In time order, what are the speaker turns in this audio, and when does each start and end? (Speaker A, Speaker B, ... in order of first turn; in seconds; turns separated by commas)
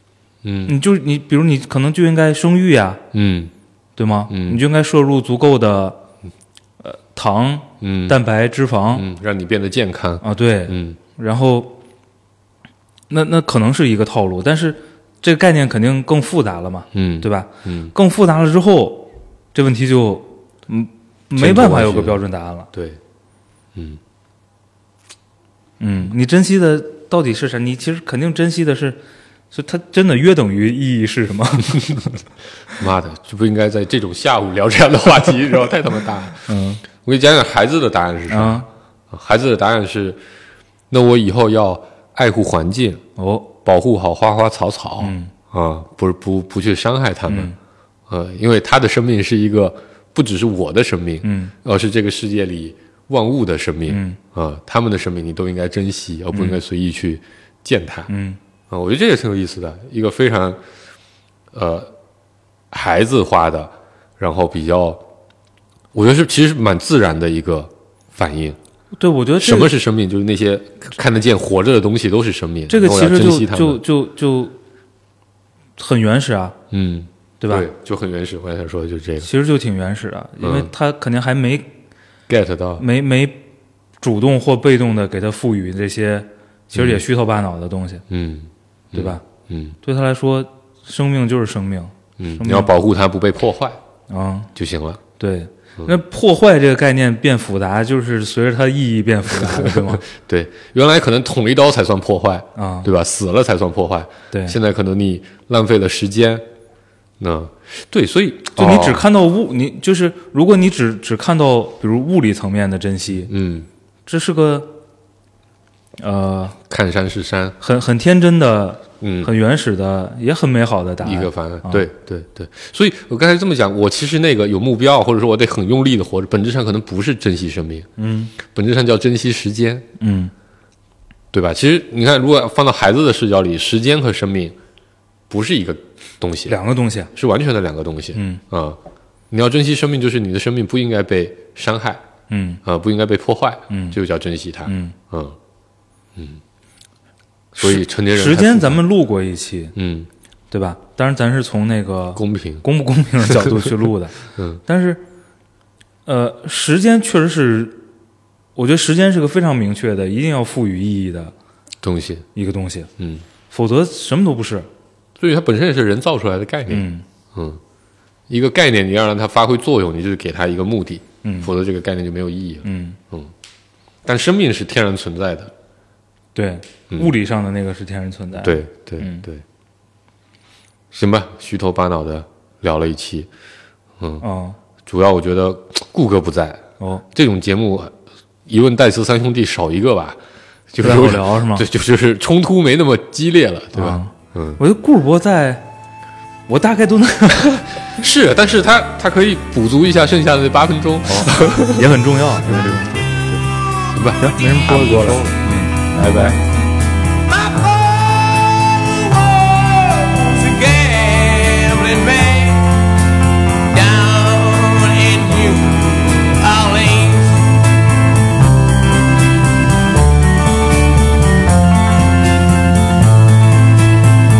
Speaker A: 0.4-0.8, Speaker B: 0.7-3.0, Speaker A: 3.1-3.5, Speaker B: 4.0-6.0, Speaker A: 4.3-4.6, Speaker B: 6.8-9.1, Speaker A: 7.8-8.2, Speaker A: 8.9-11.0, Speaker B: 10.2-11.8, Speaker B: 13.1-22.7, Speaker A: 16.9-17.9, Speaker A: 21.3-23.0, Speaker B: 25.8-29.0, Speaker B: 29.5-32.0, Speaker A: 32.8-40.2, Speaker B: 36.5-36.8, Speaker B: 38.3-38.6, Speaker A: 40.9-43.0, Speaker B: 43.2-43.5, Speaker A: 43.6-47.5, Speaker B: 45.0-45.3, Speaker B: 47.3-47.5, Speaker A: 48.1-58.1, Speaker B: 51.2-51.5, Speaker B: 53.9-54.2, Speaker B: 56.3-56.6, Speaker B: 58.1-58.4, Speaker A: 58.7-60.6, Speaker A: 61.5-61.9, Speaker A: 62.7-65.0, Speaker A: 65.9-68.6, Speaker B: 69.0-69.7, Speaker A: 69.4-73.8, Speaker B: 72.7-74.5, Speaker B: 75.8-76.6, Speaker A: 76.7-79.3, Speaker B: 77.4-77.7, Speaker B: 79.2-81.7, Speaker A: 80.4-80.7, Speaker A: 82.3-82.8, Speaker B: 82.8-83.4, Speaker B: 84.0-88.0, Speaker A: 86.7-87.0, Speaker A: 88.1-89.8, Speaker B: 88.9-89.2, Speaker B: 89.8-92.7, Speaker A: 92.2-93.8, Speaker B: 94.1-94.5, Speaker A: 94.5-95.0, Speaker B: 95.2-100.0, Speaker A: 99.4-106.4, Speaker B: 102.5-102.9, Speaker B: 104.3-104.6, Speaker A: 107.2-109.0, Speaker B: 108.5-113.3, Speaker A: 113.2-113.7, Speaker B: 114.1-114.7, Speaker B: 116.0-116.6, Speaker A: 116.7-117.6, Speaker B: 117.6-121.8, Speaker A: 119.0-119.3, Speaker A: 121.0-129.8, Speaker B: 128.0-128.3, Speaker B: 130.0-130.3, Speaker A: 131.3-134.6, Speaker A: 135.3-136.6, Speaker B: 136.5-137.1, Speaker A: 137.1-138.8, Speaker B: 138.1-138.4, Speaker A: 139.3-142.0, Speaker B: 142.3-142.6, Speaker A: 142.6-145.3, Speaker B: 143.7-144.0, Speaker B: 144.7-144.9, Speaker A: 147.5-148.8, Speaker B: 147.6-149.7, Speaker A: 149.8-150.1, Speaker B: 150.5-155.0, Speaker A: 152.2-152.7, Speaker A: 153.3-153.7, Speaker A: 154.3-154.6, Speaker B: 156.1-157.8, Speaker B: 158.6-161.3, Speaker A: 161.8-162.2, Speaker B: 162.3-162.9, Speaker A: 163.0-163.2, Speaker B: 163.5-164.7, Speaker A: 165.2-167.6, Speaker B: 166.7-167.0, Speaker A: 168.3-173.3, Speaker B: 171.2-171.5, Speaker B: 172.6-173.0, Speaker A: 174.0-175.5, Speaker B: 176.3-179.2, Speaker A: 178.4-179.4, Speaker A: 180.9-183.3, Speaker B: 184.2-184.6, Speaker A: 184.8-187.9, Speaker A: 188.5-190.2, Speaker A: 190.7-194.6, Speaker B: 190.8-191.6, Speaker B: 193.8-195.7, Speaker B: 196.5-197.6, Speaker A: 197.4-205.4, Speaker B: 201.1-203.0, Speaker B: 204.2-206.4, Speaker A: 205.9-206.4, Speaker C: 207.2-212.8, Speaker C: 213.7-217.5